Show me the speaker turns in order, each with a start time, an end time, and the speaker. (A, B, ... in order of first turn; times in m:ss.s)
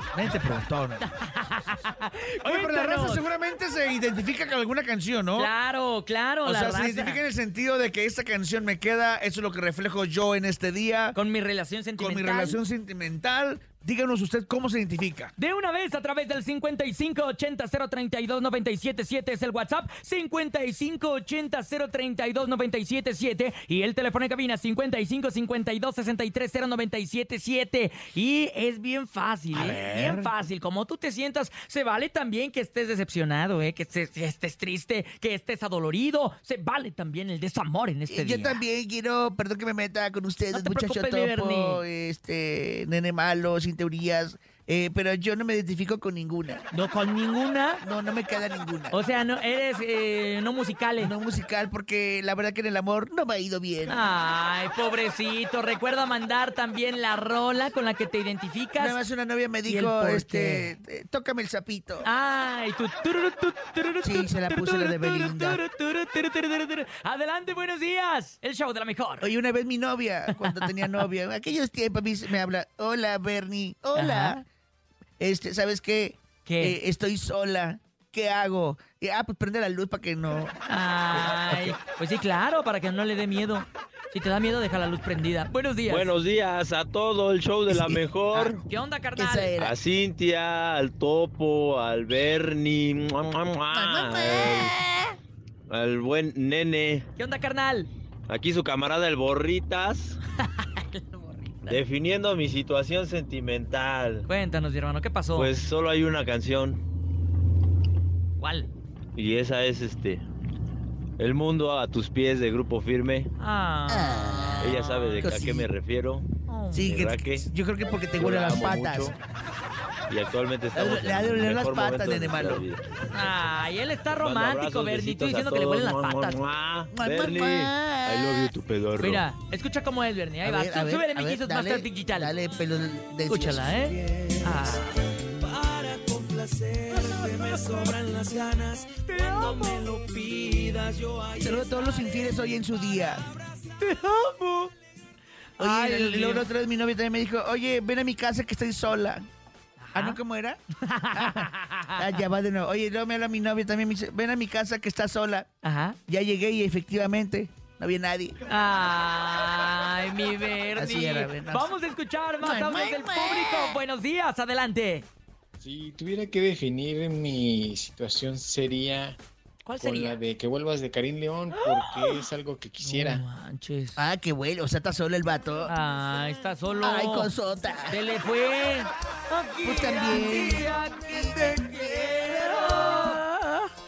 0:00.1-0:01.0 A
0:01.0-0:03.2 B
0:02.4-0:05.5 A
0:05.4-0:07.2 B
0:06.4-0:11.2 A
0:11.1-0:12.6 B
0:12.0-0:15.3 A
0:15.4-0:38.6 B
0:29.5-0:30.3 A
0:38.1-0:46.6 A
0:40.5-0:41.8 B
0:46.7-0:47.8 B
0:47.8-0:48.9 A
0:48.9-0:51.1 B
0:51.0-0:54.0 A
0:53.9-0:59.0 B
0:58.8-1:02.1 A
0:59.6-1:00.7 B
1:02.0-1:09.3 B
1:04.0-1:05.6 A
1:09.2-1:14.4 A
1:10.3-1:10.7 B
1:13.9-1:14.4 B
1:15.2-1:20.6 A
1:16.4-1:16.8 B
1:20.7-1:26.1 B
1:21.1-1:21.8 A
1:25.9-1:28.6 C
1:27.7-1:28.0 A
1:28.3-1:29.5 B
1:29.2-1:29.8 A
1:29.6-1:34.7 C
1:33.7-1:35.2 A
1:35.7-1:37.0 C
1:37.2-1:37.9 B
1:38.3-1:40.2 C
1:40.4-1:41.8 B
1:41.7-1:44.2 C
1:44.3-1:45.5 B
1:45.3-1:46.8 C
1:48.4-1:48.7 B
1:49.2-1:50.2 C
1:51.2-1:53.3 C
1:53.4-1:55.3 B
1:53.9-1:55.7 A
1:54.6-1:56.3 C
1:56.5-1:57.0 B
1:56.7-1:59.2 A
1:56.8-1:57.5 C
1:58.2-1:59.2 C
2:00.1-2:02.8 C
2:00.7-2:02.7 A
2:03.1-2:06.4 B
2:04.2-2:09.2 C
2:06.9-2:08.5 A
2:09.0-2:12.3 B
2:10.4-2:14.4 A
2:13.2-2:14.9 B
2:15.3-2:22.2 D
2:17.0-2:17.3 B
2:19.1-2:19.8 B
2:21.4-2:23.3 A
2:23.8-2:24.7 B
2:25.6-2:26.5 B
2:25.6-2:29.3 A
2:29.8-2:30.2 B
2:29.9-2:30.6 A
2:30.8-2:32.1 B
2:31.1-2:35.5 A
2:35.6-2:36.0 B
2:36.1-2:38.4 A
2:38.5-2:45.1 B
2:40.7-2:41.7 A
2:42.4-2:43.8 A
2:45.6-2:49.2 E
2:49.6-2:50.2 B
2:49.8-2:53.2 E
2:51.6-2:52.2 B
2:52.8-2:54.0 B
2:54.0-2:55.7 A
2:55.6-2:57.3 B
2:56.8-2:58.0 A
2:57.9-3:03.2 B
2:59.6-3:03.7 A